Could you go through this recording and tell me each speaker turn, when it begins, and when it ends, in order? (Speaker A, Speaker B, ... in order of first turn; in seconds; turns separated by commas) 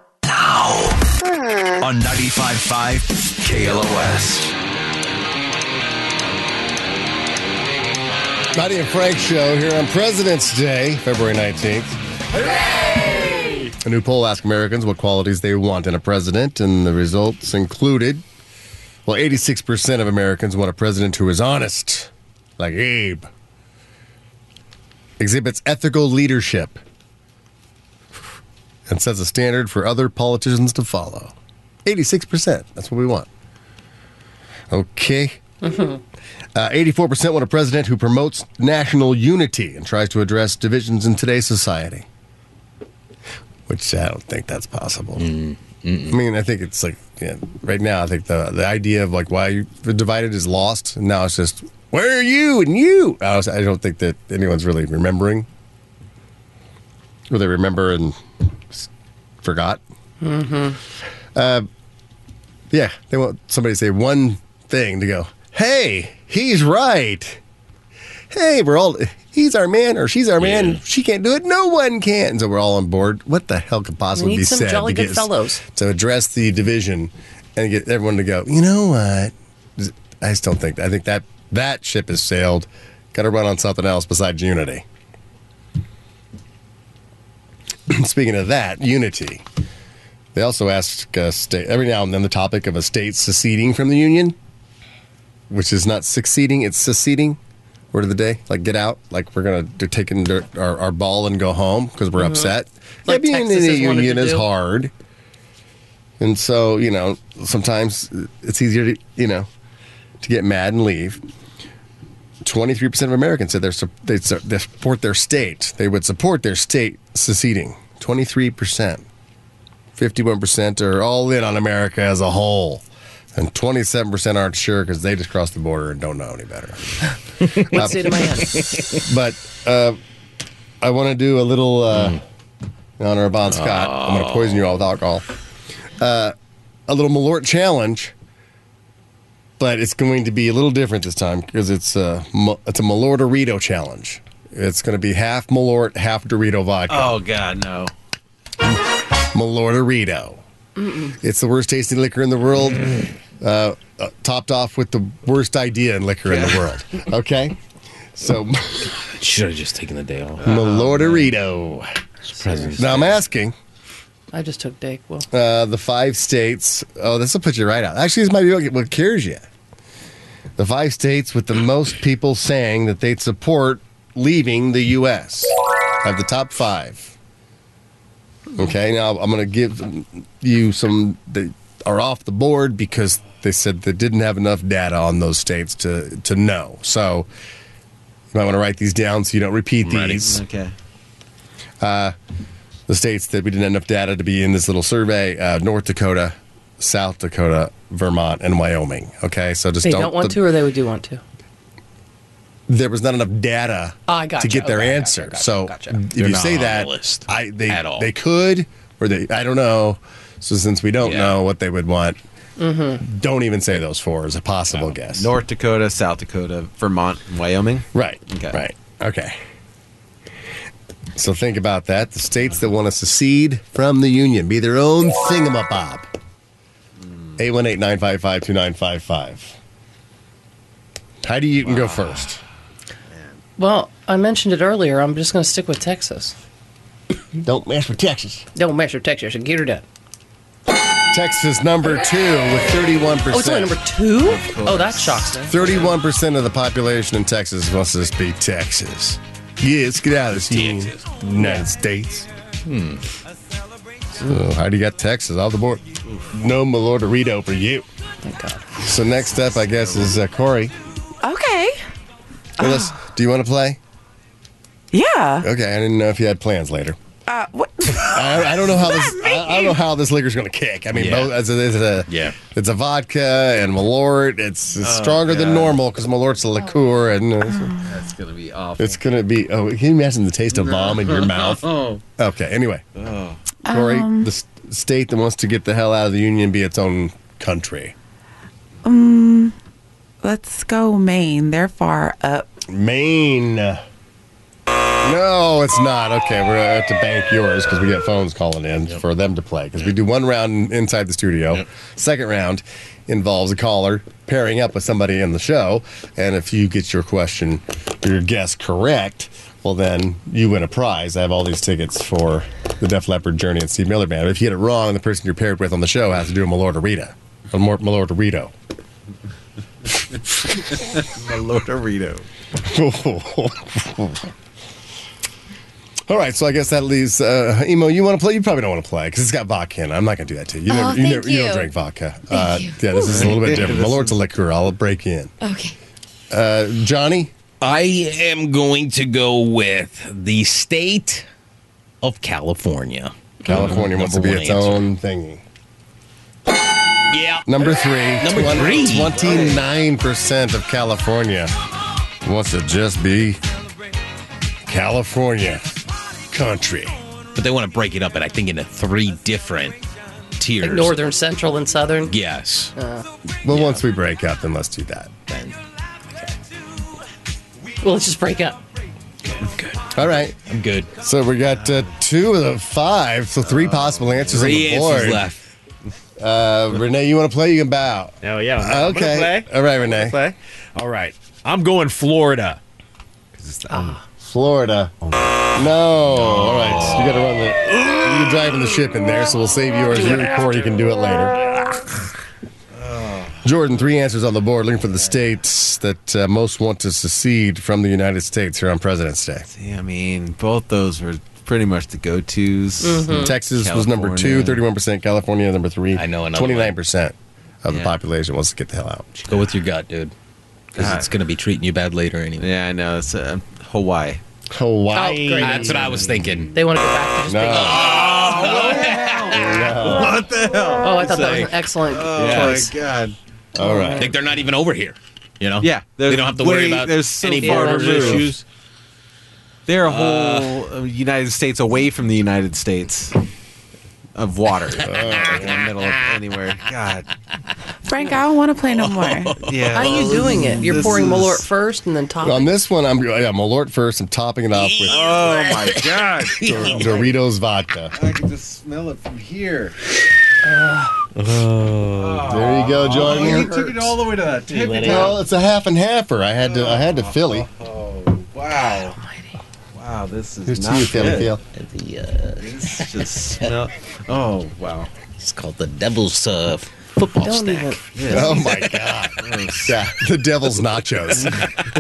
Speaker A: 0.4-0.9, Speaker A: 1.8-4.5, Speaker B: 8.5-12.0, Speaker B: 13.8-18.2, Speaker B: 19.1-23.3, Speaker B: 25.2-26.8, Speaker B: 28.9-31.3, Speaker B: 31.9-33.3, Speaker B: 34.7-35.4, Speaker C: 35.6-36.0, Speaker B: 36.5-42.1, Speaker B: 43.7-45.3, Speaker D: 45.2-46.2, Speaker B: 46.1-55.5, Speaker B: 57.3-58.2, Speaker B: 59.4-59.8, Speaker C: 60.2-60.8, Speaker B: 61.4-61.7, Speaker B: 62.7-67.4, Speaker B: 68.3-84.8, Speaker D: 70.4-70.8, Speaker C: 74.2-75.6, Speaker B: 87.9-89.4, Speaker B: 90.3-94.4, Speaker B: 95.5-97.4, Speaker B: 97.9-104.9, Speaker C: 102.2-102.5, Speaker C: 103.1-104.5, Speaker B: 106.2-109.5, Speaker B: 110.2-111.2, Speaker B: 112.4-119.0, Speaker B: 120.0-127.1, Speaker C: 127.7-128.7, Speaker B: 127.7-128.2, Speaker D: 128.7-129.0, Speaker B: 129.0-130.0, Speaker B: 130.8-132.2, Speaker B: 133.0-135.2, Speaker D: 133.5-134.6, Speaker B: 136.0-136.3, Speaker B: 136.9-138.1, Speaker B: 139.6-147.2, Speaker E: 146.9-147.9, Speaker B: 149.3-150.4, Speaker C: 150.8-151.1, Speaker B: 151.2-157.6, Speaker E: 156.3-156.7, Speaker B: 158.1-158.9, Speaker D: 159.0-161.3, Speaker E: 160.4-161.2, Speaker B: 160.4-161.9, Speaker C: 162.3-162.8, Speaker D: 162.3-163.2, Speaker B: 162.8-163.6, Speaker C: 164.3-165.3, Speaker B: 165.3-169.4, Speaker B: 170.6-177.2, Speaker B: 178.6-187.3, Speaker B: 188.3-190.4, Speaker D: 189.8-190.2, Speaker E: 190.2-190.7, Speaker B: 191.8-192.2, Speaker B: 192.9-200.4, Speaker C: 199.8-201.2, Speaker B: 202.7-212.2, Speaker C: 204.1-206.0, Speaker D: 206.2-208.1, Speaker D: 211.0-211.4, Speaker C: 212.6-213.0, Speaker B: 213.0-215.3, Speaker E: 215.1-218.6, Speaker B: 217.9-219.4, Speaker B: 221.2-226.1, Speaker B: 227.4-229.5, Speaker B: 231.2-232.4, Speaker C: 233.6-236.4, Speaker B: 237.4-238.4, Speaker C: 238.6-239.8, Speaker B: 241.1-243.8, Speaker C: 243.3-245.6, Speaker E: 244.2-245.9, Speaker B: 245.5-252.3, Speaker D: 250.4-251.1, Speaker C: 251.4-251.7, Speaker D: 252.7-253.0, Speaker B: 254.2-257.9, Speaker C: 258.2-258.8, Speaker B: 258.8-260.7, Speaker E: 259.4-260.1, Speaker F: 261.2-261.8, Speaker F: 262.6-262.9, Speaker B: 262.6-263.8, Speaker F: 264.9-265.5, Speaker B: 265.4-267.0, Speaker F: 267.3-268.4, Speaker B: 268.0-277.8, Speaker F: 268.9-269.7, Speaker D: 270.9-271.3, Speaker D: 272.1-272.4, Speaker E: 274.8-275.8, Speaker E: 277.8-279.0, Speaker B: 278.8-282.8, Speaker E: 280.5-282.0, Speaker E: 283.0-283.4, Speaker F: 283.7-284.3, Speaker B: 283.7-287.9, Speaker F: 288.8-289.6, Speaker F: 290.2-292.5, Speaker B: 292.7-293.8, Speaker B: 295.0-318.5, Speaker E: 320.6-322.2, Speaker B: 322.6-324.3, Speaker B: 326.1-335.3, Speaker G: 330.7-331.7, Speaker G: 332.3-333.2, Speaker E: 333.1-334.2, Speaker G: 335.4-335.8, Speaker B: 336.3-337.3, Speaker D: 337.6-341.3, Speaker D: 342.0-344.8, Speaker B: 343.5-345.4, Speaker D: 347.1-349.3, Speaker B: 347.5-351.5, Speaker E: 349.1-349.6, Speaker B: 352.2-353.4, Speaker B: 354.7-355.7, Speaker B: 356.3-357.0, Speaker D: 357.4-359.8, Speaker D: 360.4-361.0, Speaker C: 360.6-362.1, Speaker D: 362.1-362.7, Speaker C: 362.8-363.1, Speaker B: 363.4-365.2, Speaker D: 365.3-365.6, Speaker C: 367.8-368.6, Speaker D: 369.2-370.9, Speaker B: 369.9-370.4, Speaker B: 371.0-375.3, Speaker E: 373.4-374.6, Speaker D: 374.3-375.4, Speaker B: 376.2-380.2, Speaker H: 378.2-382.6, Speaker H: 383.4-384.0, Speaker C: 383.7-384.0, Speaker B: 384.2-384.9, Speaker H: 385.0-385.6, Speaker B: 385.6-391.5, Speaker D: 386.4-387.1, Speaker E: 392.8-393.5, Speaker B: 393.4-399.5, Speaker E: 399.5-404.6, Speaker C: 402.8-403.3, Speaker B: 403.1-409.3, Speaker D: 405.9-406.7, Speaker E: 407.7-407.9, Speaker D: 409.3-410.1, Speaker D: 410.8-412.5, Speaker E: 410.8-411.1, Speaker E: 412.4-414.2, Speaker B: 414.5-416.1, Speaker C: 414.9-415.8, Speaker H: 415.2-415.9, Speaker D: 415.4-416.5, Speaker C: 416.5-418.1, Speaker B: 417.3-418.0, Speaker E: 417.6-423.2, Speaker D: 417.7-419.8, Speaker B: 419.3-420.2, Speaker C: 420.8-422.7, Speaker D: 420.9-421.5, Speaker D: 422.1-422.7, Speaker B: 423.6-424.1, Speaker C: 423.6-424.1, Speaker D: 423.9-428.4, Speaker E: 425.6-428.3, Speaker C: 427.4-428.3, Speaker E: 429.7-433.1, Speaker D: 429.9-430.6, Speaker E: 434.1-437.1, Speaker B: 434.8-435.6, Speaker D: 434.9-435.7, Speaker F: 437.9-439.4, Speaker D: 438.7-440.7, Speaker E: 439.4-441.4, Speaker C: 439.7-442.5, Speaker B: 442.2-445.0, Speaker D: 444.6-447.0, Speaker E: 444.9-447.1, Speaker B: 446.4-447.9, Speaker E: 447.9-449.8, Speaker C: 450.4-450.9, Speaker D: 451.2-452.3, Speaker E: 452.0-455.2, Speaker B: 452.3-453.5, Speaker D: 453.0-453.4, Speaker D: 454.5-455.2, Speaker B: 454.8-457.5, Speaker E: 456.4-459.0, Speaker C: 458.9-459.3, Speaker E: 459.7-461.3, Speaker B: 460.5-461.4, Speaker D: 461.0-462.9, Speaker E: 462.4-464.9, Speaker D: 465.2-468.2, Speaker C: 467.0-467.8, Speaker E: 468.0-468.5, Speaker B: 468.1-471.4, Speaker E: 469.2-469.8